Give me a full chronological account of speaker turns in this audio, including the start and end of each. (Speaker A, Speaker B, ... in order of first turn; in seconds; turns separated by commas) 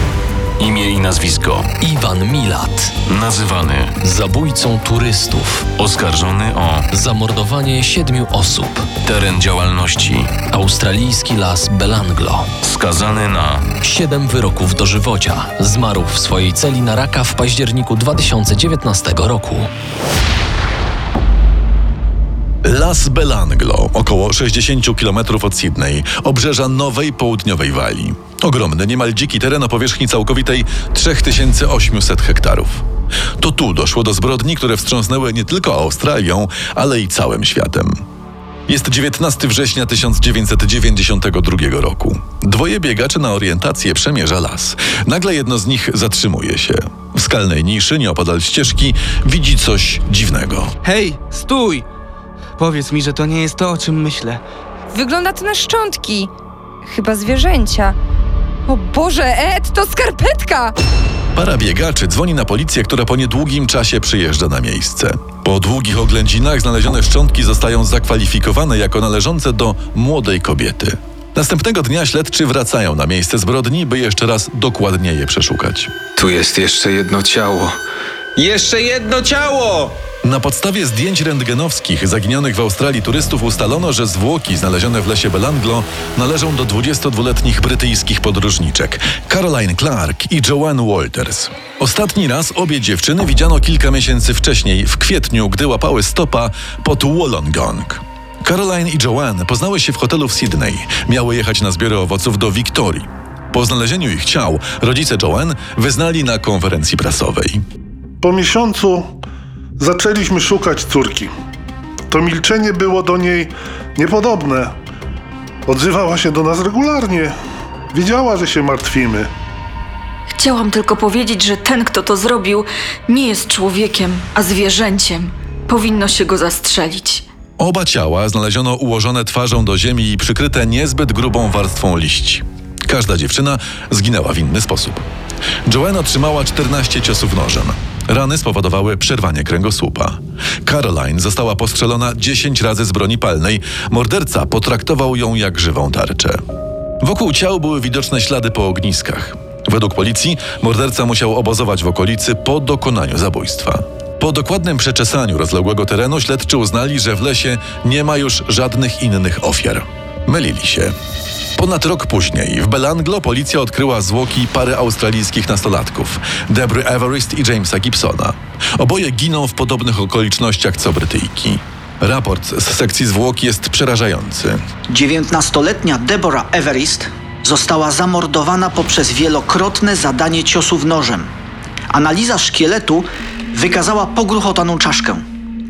Speaker A: 0.6-1.8, Speaker B: 1.8-3.0, Speaker A: 3.1-4.0, Speaker B: 4.0-5.7, Speaker A: 5.8-6.9, Speaker B: 6.9-9.0, Speaker A: 9.0-10.4, Speaker B: 10.4-12.5, Speaker A: 12.6-13.7, Speaker B: 13.8-19.7, Speaker C: 22.6-32.9, Speaker C: 33.4-38.0, Speaker C: 38.7-50.7, Speaker D: 50.9-51.9, Speaker D: 52.6-54.4, Speaker E: 54.9-56.3, Speaker E: 56.9-58.0, Speaker E: 58.7-60.7, Speaker C: 61.4-75.9, Speaker F: 76.2-77.8, Speaker F: 78.4-80.0, Speaker C: 80.2-107.6, Speaker G: 108.2-109.1, Speaker G: 109.8-111.3, Speaker G: 112.1-114.7, Speaker G: 115.7-117.3, Speaker G: 117.9-119.3, Speaker H: 120.4-125.1, Speaker H: 125.7-127.2, Speaker C: 127.6-135.0, Speaker C: 135.7-146.4, Speaker C: 147.0-160.9, Speaker C: 161.6-174.6, Speaker I: 174.9-181.3, Speaker I: 181.9-185.2